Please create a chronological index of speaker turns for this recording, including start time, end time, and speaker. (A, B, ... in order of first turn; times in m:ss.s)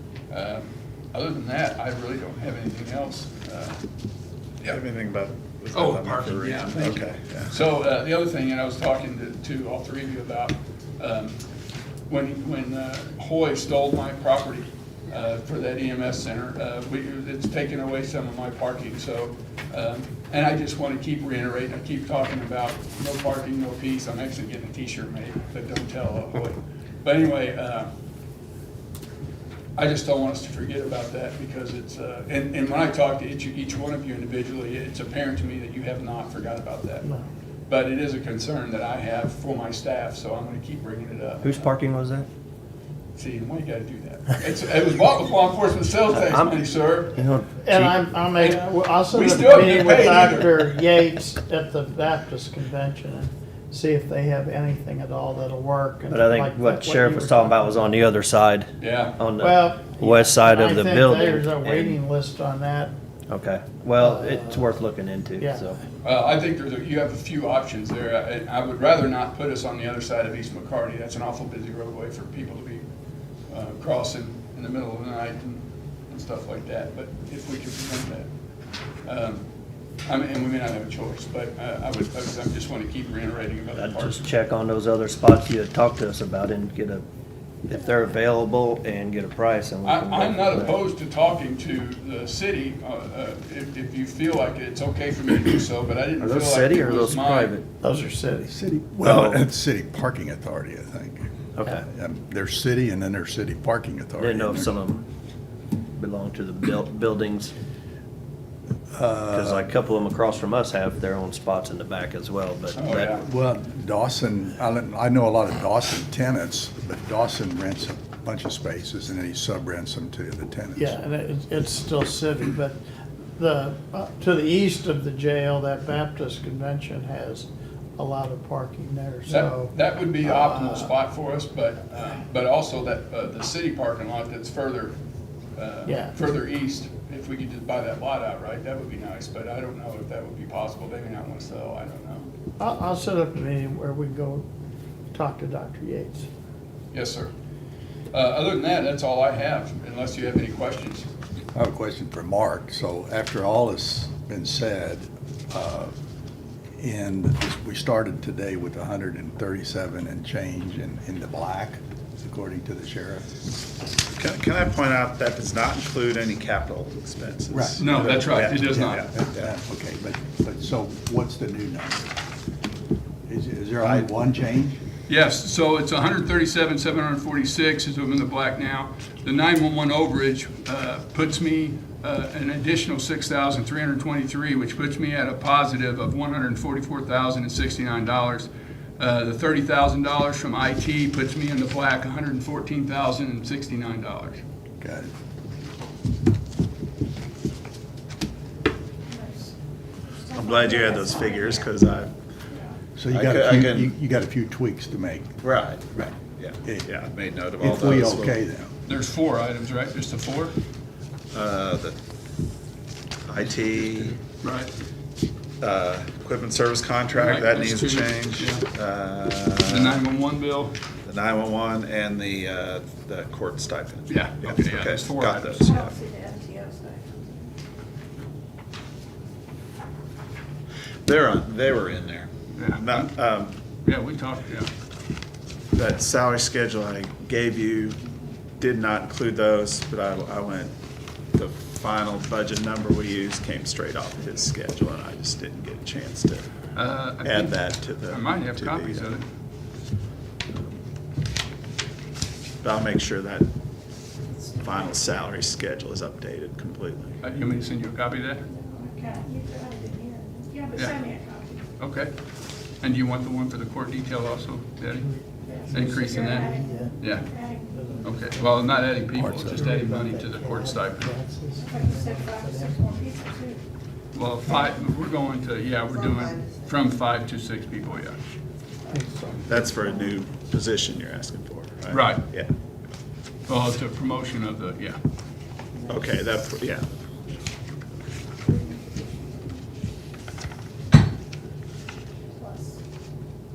0:00.3-0:03.8 A
0:04.6-0:07.6 B
0:05.7-0:11.4 A
0:12.1-0:27.9 A
0:29.8-0:37.1 A
0:37.7-0:41.7 A
0:41.4-0:42.3 C
0:43.1-0:47.2 A
0:46.1-0:46.6 C
0:47.1-0:48.0 C
0:47.5-0:58.1 D
0:48.4-0:50.7 A
0:56.1-1:02.0 C
0:58.8-0:59.2 A
0:59.4-1:02.9 D
1:03.3-1:05.8 C
1:04.0-1:04.7 D
1:05.4-1:05.8 D
1:06.0-1:12.9 A
1:13.5-1:18.3 A
1:19.0-1:19.4 A
1:20.1-1:24.2 A
1:23.8-1:27.0 C
1:27.7-1:30.8 C
1:29.8-1:37.6 A
1:36.2-1:37.7 C
1:37.8-1:38.5 D
1:38.5-1:41.3 E
1:39.0-1:39.4 C
1:41.6-1:41.8 C
1:41.8-1:44.7 E
1:44.2-1:45.0 C
1:46.0-1:47.5 C
1:48.9-1:49.7 E
1:49.3-1:53.2 C
1:52.8-1:53.2 A
1:53.2-2:01.0 E
2:00.8-2:02.8 D
2:03.4-2:10.9 D
2:09.3-2:15.0 A
2:15.6-2:22.3 A
2:15.8-2:16.1 D
2:22.6-2:24.4 D
2:25.1-2:26.3 D
2:26.9-2:27.3 A
2:28.1-2:31.1 A
2:31.5-2:35.9 E
2:36.8-2:43.3 E
2:44.1-2:49.5 B
2:47.5-2:52.1 E
2:47.8-2:49.0 A
2:53.2-2:54.8 E
2:53.8-2:54.1 B
2:55.1-3:14.4 A
3:14.8-3:15.1 E
3:19.1-3:19.5 F
3:20.1-3:21.7 F
3:20.3-3:22.1 B
3:22.5-3:22.8 F
3:23.0-3:25.4 E
3:23.1-3:23.9 B
3:25.4-3:28.4 B
3:26.6-3:26.9 E
3:27.6-3:28.7 E
3:28.8-3:30.6 A
3:31.3-3:32.0 B
3:33.3-3:34.2 B
3:34.4-3:34.7 A
3:35.6-3:40.0 B
3:37.1-3:38.7 A
3:39.7-3:40.8 A
3:41.0-3:46.0 B
3:44.1-3:45.7 A
3:45.6-3:47.3 F
3:51.0-3:53.6 B
3:52.5-3:53.1 A
3:53.8-3:54.7 A
3:55.7-3:58.0 B
3:58.6-4:00.8 B
4:01.3-4:06.5 B
4:06.8-4:09.2 A
4:07.2-4:09.2 B
4:12.6-4:13.5 B
4:14.6-4:17.2 B
4:17.2-4:18.4 A
4:18.5-4:21.6 F
4:20.7-4:21.1 A
4:21.8-4:22.1 A
4:22.8-4:25.1 A
4:24.9-4:32.9 D
4:25.4-4:27.7 F
4:25.7-4:27.3 A
4:28.0-4:31.1 A
4:31.6-4:33.6 F
4:34.1-4:38.2 A
4:38.9-4:40.1 D
4:39.4-4:42.5 B
4:41.9-4:42.2 A
4:43.5-4:45.0 A
4:45.8-4:46.1 F
4:45.9-4:46.9 B
4:48.4-4:49.4 F
4:52.4-4:52.8 F